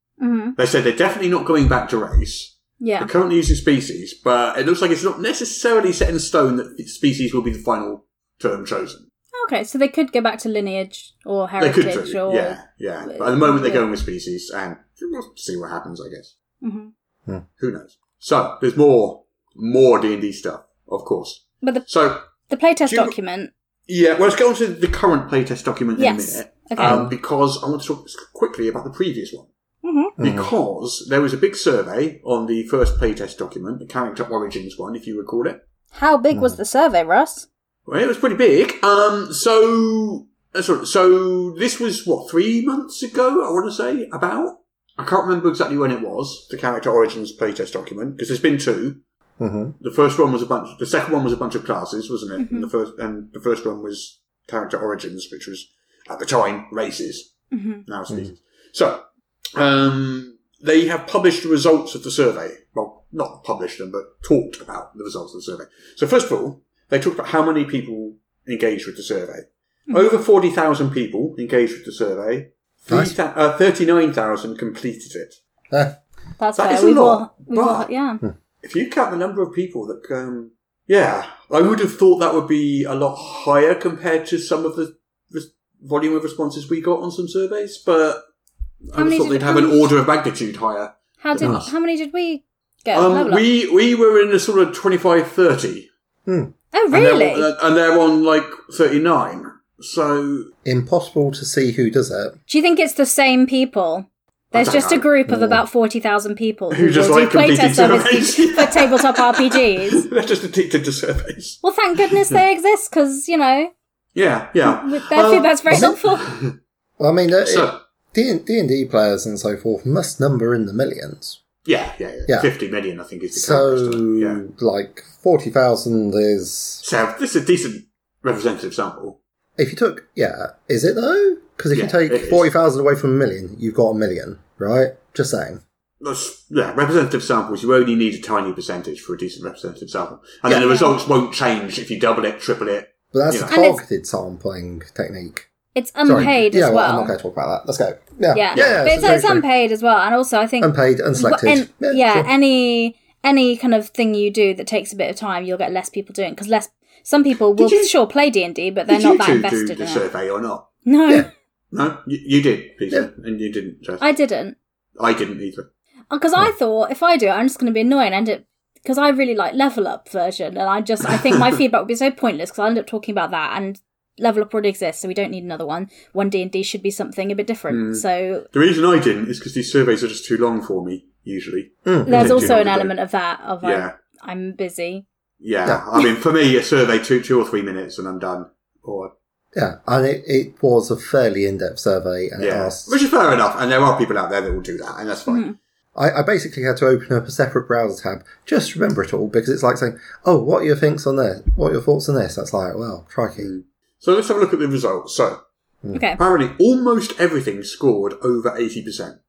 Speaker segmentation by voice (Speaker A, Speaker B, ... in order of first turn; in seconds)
Speaker A: 0.2-0.6, 2.8-3.1, 9.4-13.8, 16.6-16.9, 22.5-23.5, 26.0-27.0, 29.8-30.1, 35.9-37.5, 52.4-52.7, 57.5-57.8, 76.4-78.2, 89.0-89.9, 91.2-93.4, 96.7-97.5, 102.5-110.1, 111.6-113.7, 114.6-116.3, 140.6-140.9, 143.5-143.8, 145.8-147.2, 148.3-160.1, 160.8-161.3, 164.0-164.6, 166.1-178.5, 182.1-185.1, 195.3-195.6, 205.9-206.2
Speaker B: 0.6-9.1, 11.6-16.3, 17.6-22.2, 22.9-23.1, 23.9-29.5, 30.2-35.6, 37.9-49.0, 49.8-57.3, 57.9-59.0, 59.6-75.4, 76.6-77.9, 78.6-88.2, 88.9-91.7, 92.9-95.9, 96.9-100.5, 104.5-105.1, 106.7-111.6, 114.2-116.5, 117.4-117.8, 121.7-124.4, 126.8-129.2, 131.7-132.5, 136.0-143.5, 148.6-149.2, 157.6-157.9, 158.9-160.7, 161.7-164.1, 165.0-165.7, 171.1-171.6, 177.7-182.9, 183.6-183.9, 185.4-189.1, 192.4-195.5, 203.4-205.4, 206.2-209.2
Speaker C: 26.8-27.1, 30.2-30.5, 36.3-36.6, 49.4-49.8, 72.9-73.1, 96.3-96.5, 100.7-102.4, 105.3-105.6, 115.7-116.0, 117.0-121.4, 123.3-126.8, 129.6-135.6, 140.5-140.7, 143.1-145.5, 146.1-149.4, 150.6-152.3, 181.9-182.6, 189.6-193.0, 195.9-203.5